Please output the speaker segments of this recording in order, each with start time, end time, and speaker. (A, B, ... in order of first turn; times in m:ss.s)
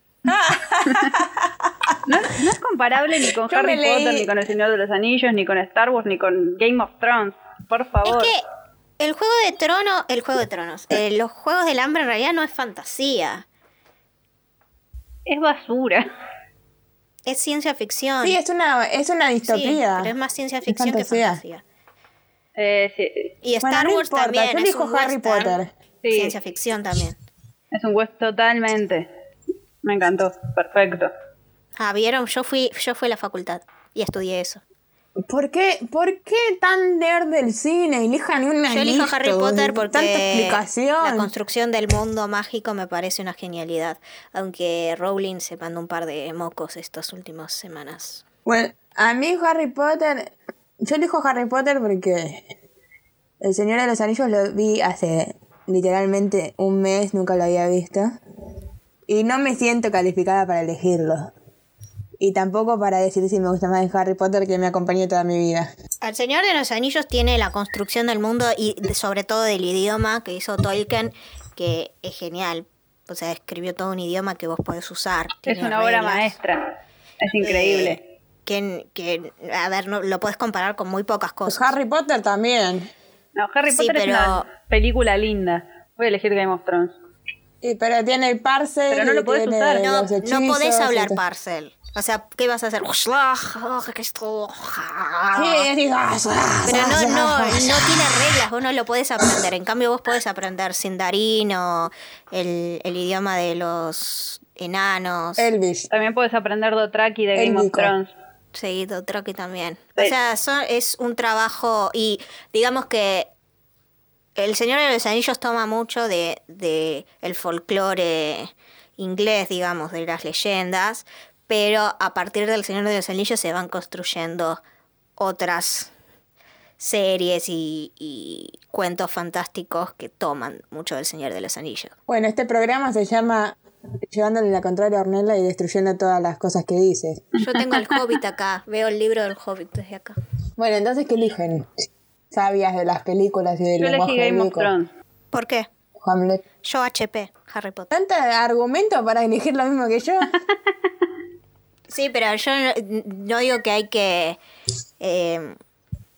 0:00.2-0:01.9 A
0:00.8-0:01.2 B
0:02.0-0:08.3 B
0:03.4-0:04.3 A
0:08.0-0:08.4 C
0:09.0-0:13.4 C
0:15.3-0:16.0 B
0:17.2-0:18.4 C
0:18.2-0:20.1 A
0:19.4-0:21.6 C
0:20.7-0:21.4 A
0:22.6-0:23.3 B
0:23.4-0:25.6 C
0:23.6-0:25.7 A
0:26.0-0:26.3 B
0:26.1-0:27.2 C
0:27.7-0:29.1 B
0:29.8-0:31.1 B
0:31.8-0:34.6 C
0:35.3-0:41.3 A
0:38.7-0:48.2 C
0:48.4-0:50.3 A
0:50.8-0:52.4 A
0:53.4-0:58.1 A
0:59.1-1:01.3 A
1:02.2-1:05.7 A
1:06.0-1:16.3 C
1:15.4-1:18.0 B
1:17.4-1:21.7 C
1:21.5-1:22.9 A
1:23.4-1:27.0 B
1:23.7-1:24.5 C
1:27.6-1:31.2 A
1:28.9-1:29.8 B
1:29.8-1:35.7 C
1:35.3-1:38.4 A
1:36.6-1:45.5 C
1:45.4-1:45.9 A
1:45.9-1:48.1 B
1:47.3-1:47.9 A
1:48.5-1:53.3 C
1:54.4-2:04.6 C
2:05.2-2:05.9 C
2:06.8-2:11.9 C
2:12.1-2:13.6 A
2:14.1-2:17.2 A
2:17.4-2:20.2 C
2:20.6-2:21.7 A
2:22.3-2:24.7 A
2:23.8-2:24.9 B
2:25.3-2:25.7 C
2:26.0-2:26.4 A
2:26.6-2:27.9 C
2:27.9-2:30.3 A
2:31.9-2:34.4 C
2:35.0-2:35.6 C